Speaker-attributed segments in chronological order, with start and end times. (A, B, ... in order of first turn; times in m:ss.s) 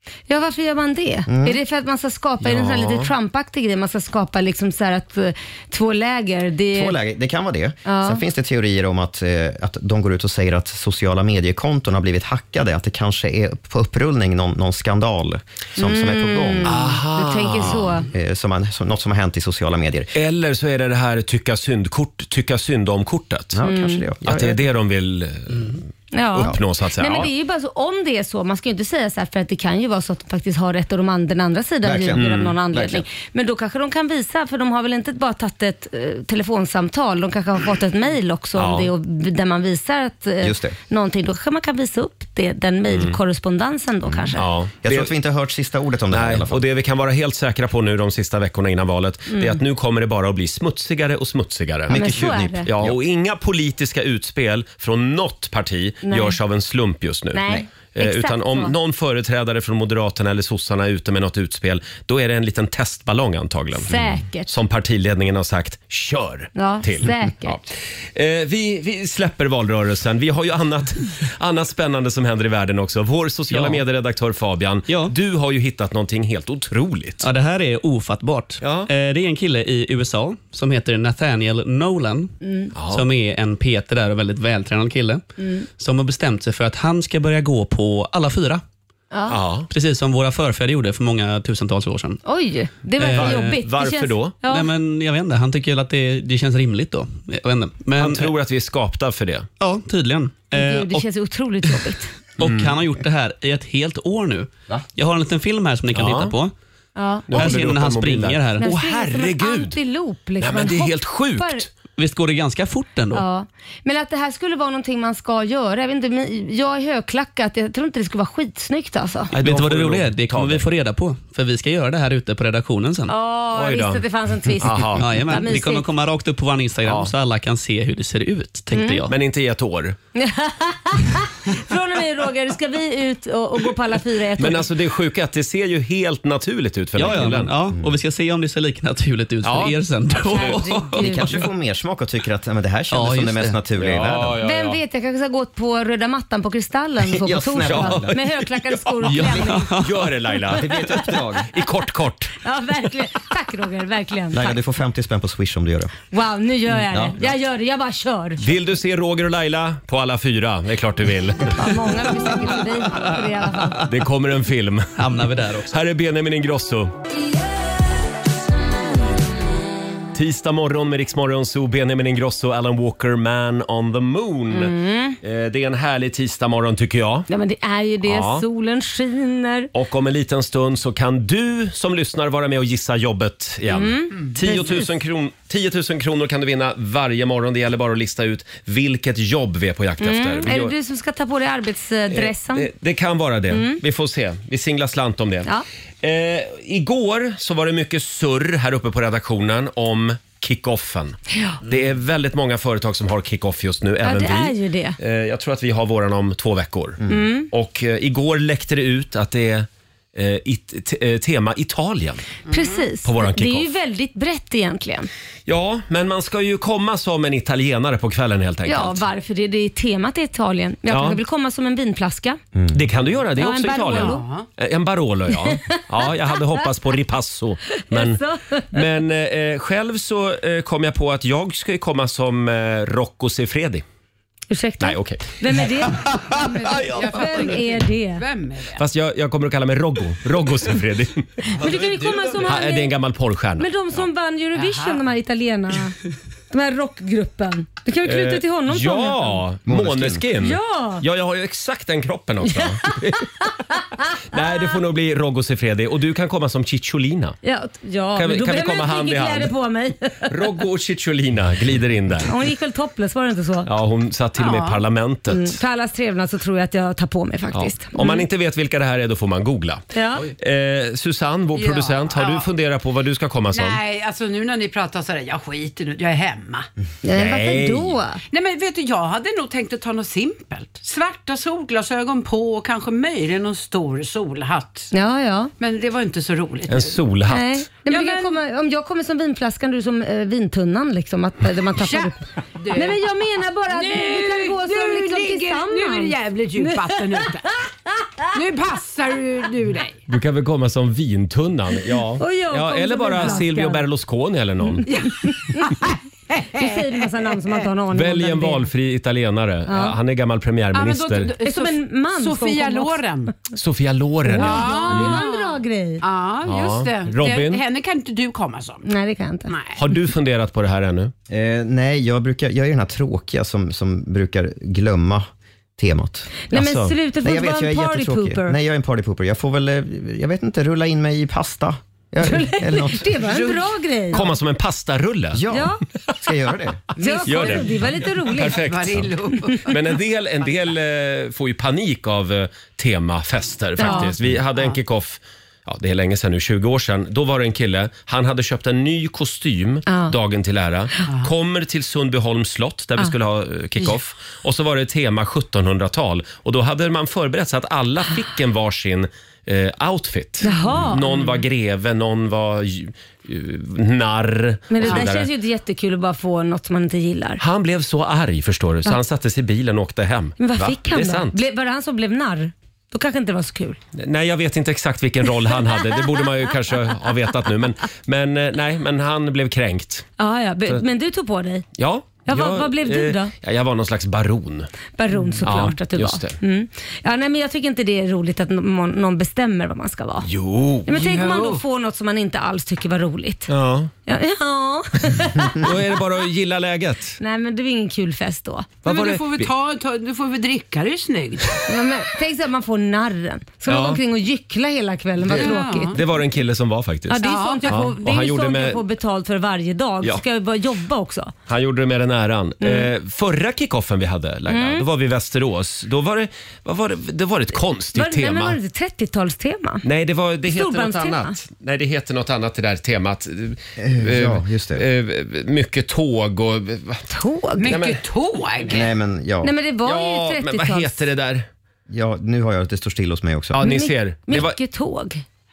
0:00.3-0:07.0 A
0:01.3-0:01.6 B
0:02.4-0:03.1 C
0:06.7-0:16.8 B
0:07.8-0:08.2 A
0:15.8-0:18.1 A
0:16.6-0:18.0 C
0:18.1-0:20.1 B
0:20.1-0:23.6 C
0:23.5-0:24.6 B
0:23.6-0:24.0 A
0:24.2-0:25.8 C
0:26.1-0:44.5 A
0:26.3-0:27.3 C
0:31.8-0:33.0 B
0:32.2-0:32.4 C
0:38.6-0:38.9 C
0:40.4-0:40.8 B
0:42.9-0:43.2 C
0:44.0-0:44.3 B
0:44.4-0:45.1 C
0:44.8-0:46.6 B
0:46.1-1:03.9 C
0:49.3-0:49.6 A
0:51.9-0:53.0 B
0:51.9-0:52.7 A
0:56.0-0:56.4 A
0:57.3-0:58.7 A
1:03.8-1:04.5 A
1:04.5-1:17.2 C
1:06.5-1:07.6 A
1:13.5-1:13.8 D
1:14.9-1:15.1 D
1:17.2-1:22.3 D
1:18.6-1:18.9 C
1:22.4-1:22.7 A
1:22.7-1:23.0 C
1:22.9-1:25.2 D
1:25.4-1:25.6 A
1:25.8-1:28.6 D
1:29.1-1:29.4 A
1:29.3-1:29.7 C
1:29.7-1:32.2 D
1:32.2-1:34.7 A
1:33.0-1:33.6 D
1:33.2-1:34.3 C
1:34.4-1:38.3 D
1:38.0-1:39.5 C
1:39.6-1:41.0 D
1:40.5-1:42.1 A
1:42.4-1:46.5 D
1:42.4-1:42.7 C
1:45.9-1:46.3 C
1:47.0-1:47.5 A
1:47.3-1:49.8 C
1:47.3-1:48.7 D
1:48.6-1:51.6 A
1:50.4-1:51.7 C
1:51.9-1:53.2 D
1:53.1-1:59.3 A
1:59.3-2:03.1 D
1:59.4-2:00.6 C
2:03.1-2:05.8 A
2:03.5-2:04.0 C
2:04.6-2:05.0 C
2:05.0-2:09.1 D
2:06.8-2:07.1 C
2:08.7-2:09.0 A
2:09.1-2:10.0 C
2:10.1-2:14.7 A
2:14.4-2:17.5 C
2:17.0-2:21.3 D
2:19.4-2:19.7 C
2:20.2-2:21.3 A
2:21.0-2:24.4 B
2:22.9-2:23.6 D
2:23.8-2:24.8 C
2:24.4-2:29.7 A
2:27.0-2:28.2 B
2:29.0-2:30.0 D
2:29.8-2:32.4 C
2:30.5-2:31.5 B
2:32.4-2:34.5 A
2:34.3-2:35.9 B
2:36.1-2:38.4 A
2:36.9-2:37.2 B
2:38.4-2:41.6 C
2:41.5-2:43.8 A
2:43.8-2:45.0 C
2:45.0-2:45.7 D
2:45.7-2:47.0 C
2:50.1-2:57.3 C
2:54.5-2:55.2 A
2:57.3-2:59.7 A
2:58.0-2:58.4 C
2:59.7-3:10.7 C
3:03.7-3:04.9 A
3:10.0-3:12.7 A
3:12.1-3:15.5 C
3:13.5-3:13.8 A
3:16.0-3:32.2 C
3:24.0-3:25.0 A
3:27.1-3:27.5 A
3:32.5-3:32.8 E
3:32.5-3:35.1 A
3:33.0-3:33.7 C
3:35.5-3:39.0 C
3:38.7-3:42.4 A
3:40.9-3:41.2 C
3:42.5-3:42.8 B
3:42.7-3:48.2 C
3:43.4-3:44.2 A
3:43.8-3:44.5 E
3:45.3-3:45.8 A
3:46.4-3:46.6 A
3:47.7-3:48.8 A
3:48.7-3:53.8 C
3:54.5-3:58.2 A
3:54.8-3:55.4 C
3:56.3-3:58.8 E
3:58.8-4:01.8 C
4:01.5-4:02.9 A
4:02.3-4:03.7 C
4:03.6-4:06.0 A
4:04.5-4:05.0 E
4:06.5-4:09.4 A
4:08.0-4:13.6 C
4:09.6-4:10.2 B
4:10.4-4:11.0 A
4:12.6-4:14.7 A
4:14.3-4:17.4 C
4:17.4-4:20.3 A
4:18.2-4:19.5 C
4:20.3-4:22.3 C
4:22.2-4:23.7 A
4:23.6-4:25.6 C
4:24.4-4:24.8 E
4:25.3-4:28.2 A
4:27.5-4:33.8 C
4:29.9-4:30.2 A
4:31.5-4:32.5 E
4:33.5-4:36.7 E
4:37.0-4:38.2 A
4:37.1-4:37.9 C
4:38.3-4:44.9 E
4:44.9-4:45.5 A
4:45.6-4:47.0 E
4:46.7-4:47.6 C
4:47.3-4:52.2 A
4:47.8-4:48.3 E
4:51.8-4:53.0 E
4:52.7-4:57.6 A
4:53.7-4:57.6 E
4:58.3-5:00.0 E
5:00.1-5:04.8 C
5:02.2-5:03.8 A
5:03.2-5:03.5 E
5:04.8-5:05.7 A
5:04.9-5:07.0 E
5:06.5-5:08.7 A
5:07.9-5:11.3 C
5:09.7-5:10.0 A
5:10.7-5:13.4 E
5:11.4-5:13.0 A
5:13.6-5:15.2 C
5:14.2-5:16.0 A
5:14.3-5:18.8 E
5:16.4-5:17.6 C
5:18.8-5:19.5 A
5:19.5-5:19.8 E
5:19.7-5:21.1 C
5:21.3-5:26.3 B
5:26.5-5:28.6 A
5:26.5-5:26.9 C
5:27.2-5:33.2 B
5:32.2-5:34.2 A
5:33.3-5:35.4 C
5:35.3-5:36.8 B
5:35.5-5:35.8 A
5:37.0-5:40.0 E
5:37.0-5:38.6 A
5:37.2-5:39.1 C
5:39.6-6:05.3 C
5:43.8-5:44.1 A
5:43.8-5:44.8 E
5:49.9-5:50.1 A
6:00.4-6:01.0 A
6:01.1-6:01.4 E
6:04.7-6:07.4 A
6:07.4-6:11.4 C
6:10.4-6:13.8 A
6:13.9-6:20.1 C
6:20.2-6:21.6 A
6:21.8-6:24.7 C
6:22.2-6:23.3 A
6:25.0-6:30.3 A
6:25.4-6:26.4 C
6:30.2-6:31.3 C
6:30.8-6:33.5 A
6:31.0-6:31.6 E
6:33.5-6:33.9 C
6:34.1-6:35.7 A
6:35.1-6:37.2 C
6:37.2-6:38.8 A
6:38.8-6:41.6 E
6:38.8-6:39.5 C
6:41.7-6:46.0 A
6:43.7-6:44.0 C
6:45.2-6:48.8 C
6:45.3-6:46.0 E
6:47.1-6:51.3 A
6:47.2-6:47.8 E
6:51.5-6:58.6 C
6:52.6-6:52.9 A
6:54.5-6:54.8 A
6:57.9-6:59.8 A
6:59.8-7:07.0 C
7:00.5-7:01.4 A
7:03.8-7:04.8 B
7:07.1-7:07.7 A
7:07.6-7:08.8 E
7:07.6-7:08.0 C
7:08.7-7:09.5 B
7:09.4-7:11.0 A
7:09.8-7:11.4 C
7:11.9-7:13.6 B
7:13.5-7:14.6 C
7:13.6-7:15.2 A